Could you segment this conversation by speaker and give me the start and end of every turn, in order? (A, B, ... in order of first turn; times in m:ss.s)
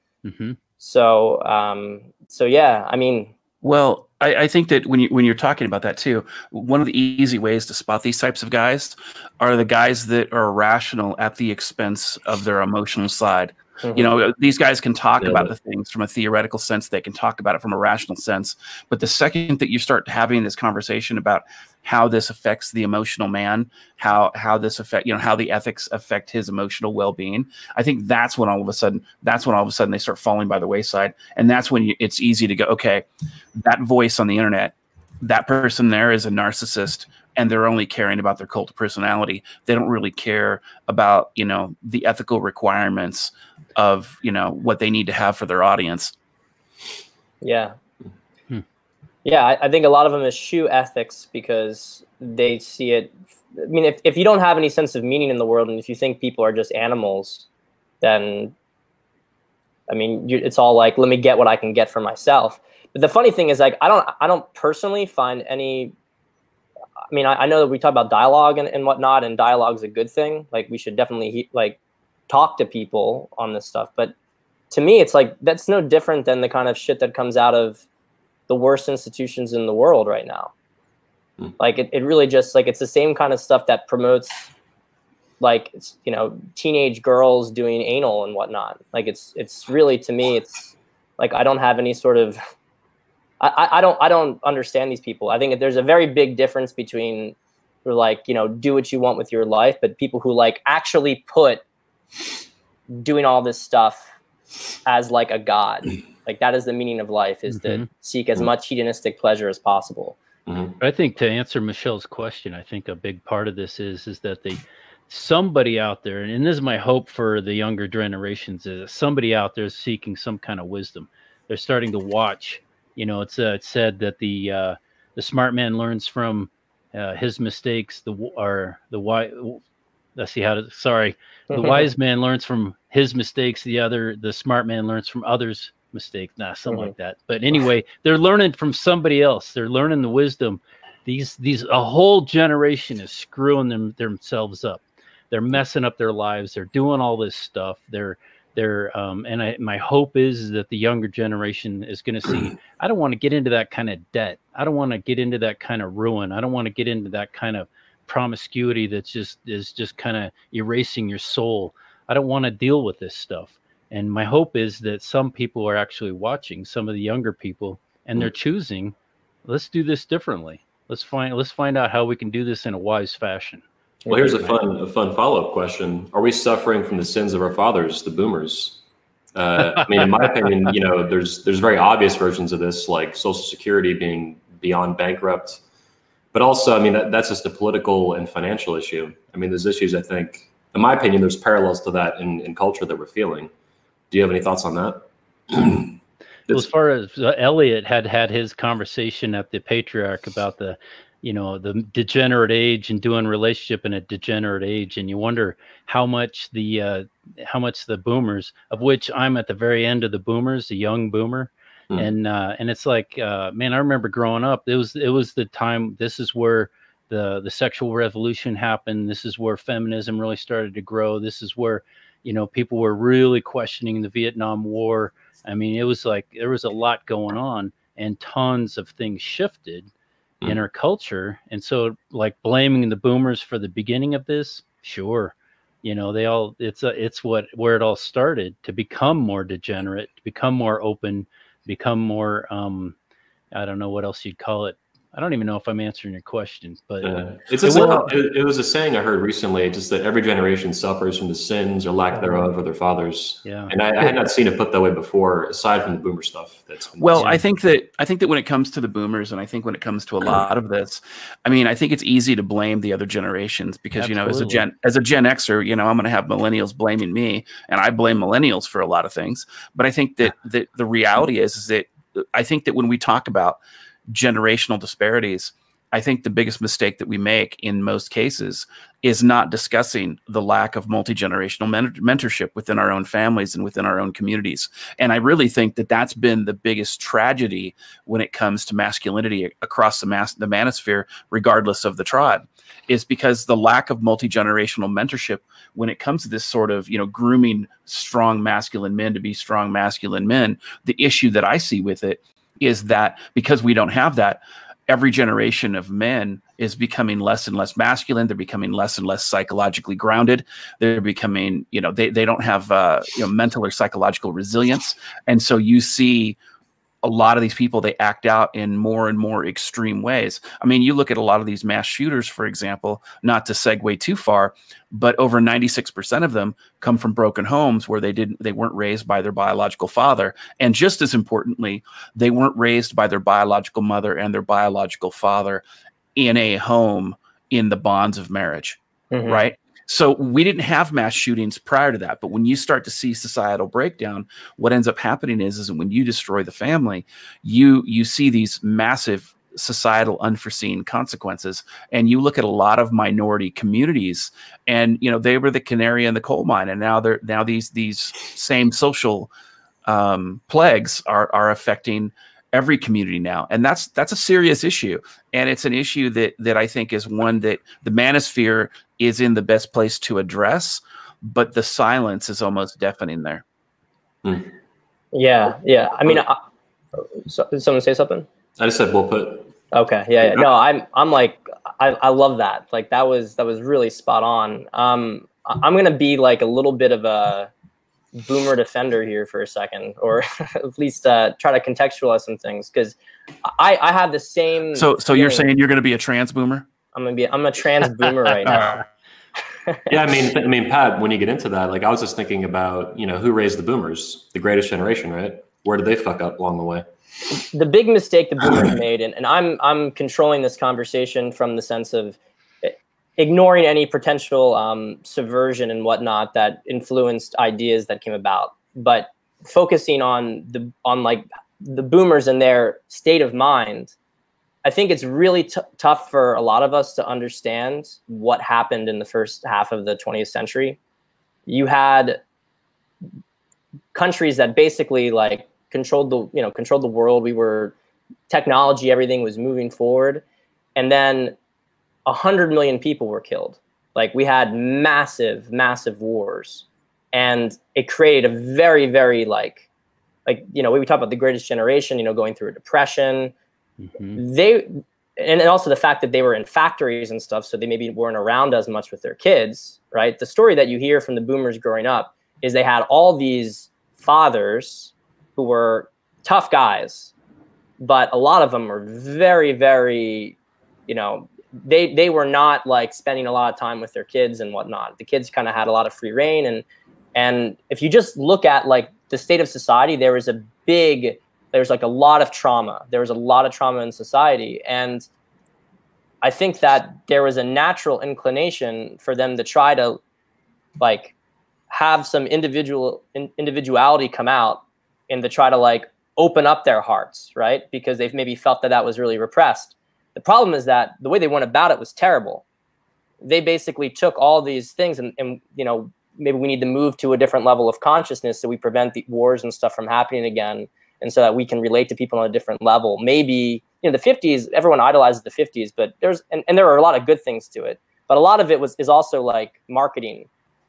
0:00.2-0:00.6 A
0:00.8-0:03.3 B
0:03.6-0:46.1 C
0:13.8-0:14.1 B
0:15.2-0:15.5 D
0:47.4-0:47.7 B
0:49.2-0:57.4 B
0:58.0-0:58.5 B
0:59.9-1:05.9 B
1:07.1-1:11.8 B
1:12.3-1:14.1 B
1:14.7-1:17.8 B
1:18.5-1:20.5 B
1:21.6-1:24.5 B
1:25.4-1:32.4 B
1:33.4-1:41.6 B
1:42.9-1:44.1 B
1:44.8-1:50.2 B
1:47.5-1:47.8 A
1:50.5-1:50.8 D
1:50.8-2:09.6 A
2:10.2-2:48.9 A
2:11.5-2:11.9 B
2:16.7-2:16.9 B
2:49.4-2:53.6 A
2:54.0-2:58.8 D
2:54.1-2:54.3 B
2:59.3-3:05.6 D
3:06.3-3:13.5 D
3:14.1-3:16.0 D
3:16.5-3:49.9 A
3:50.4-4:02.9 A
4:03.5-4:07.2 A
4:07.0-4:17.2 D
4:07.6-4:08.1 C
4:07.7-4:08.1 A
4:12.1-4:12.4 B
4:13.4-4:13.7 A
4:17.0-5:16.4 C
4:17.1-4:17.4 A
4:24.0-4:24.6 A
5:17.0-5:35.6 C
5:36.2-5:59.3 C
5:39.1-5:39.4 B
5:59.8-6:13.4 C
6:14.2-6:14.5 D
6:15.1-6:16.4 B
6:17.0-6:18.2 B
6:18.6-6:19.5 D
6:19.7-6:27.5 B
6:20.2-6:20.5 D
6:28.1-6:35.5 B
6:34.7-6:36.6 C
6:36.9-6:38.8 B
6:38.4-6:38.8 C
6:39.9-6:46.8 D
6:47.3-7:03.9 B
7:04.6-7:10.8 B
7:11.5-7:12.2 B
7:13.9-7:17.7 B
7:18.3-7:20.2 B
7:20.8-7:21.4 B
7:22.0-7:29.6 B
7:30.2-7:33.3 B
7:33.8-7:34.2 A
7:34.2-7:47.1 B
7:47.8-7:50.4 B
7:50.9-8:05.1 B
8:06.2-8:10.0 B
8:10.8-8:11.1 B
8:11.7-8:22.4 B
8:23.2-8:40.3 B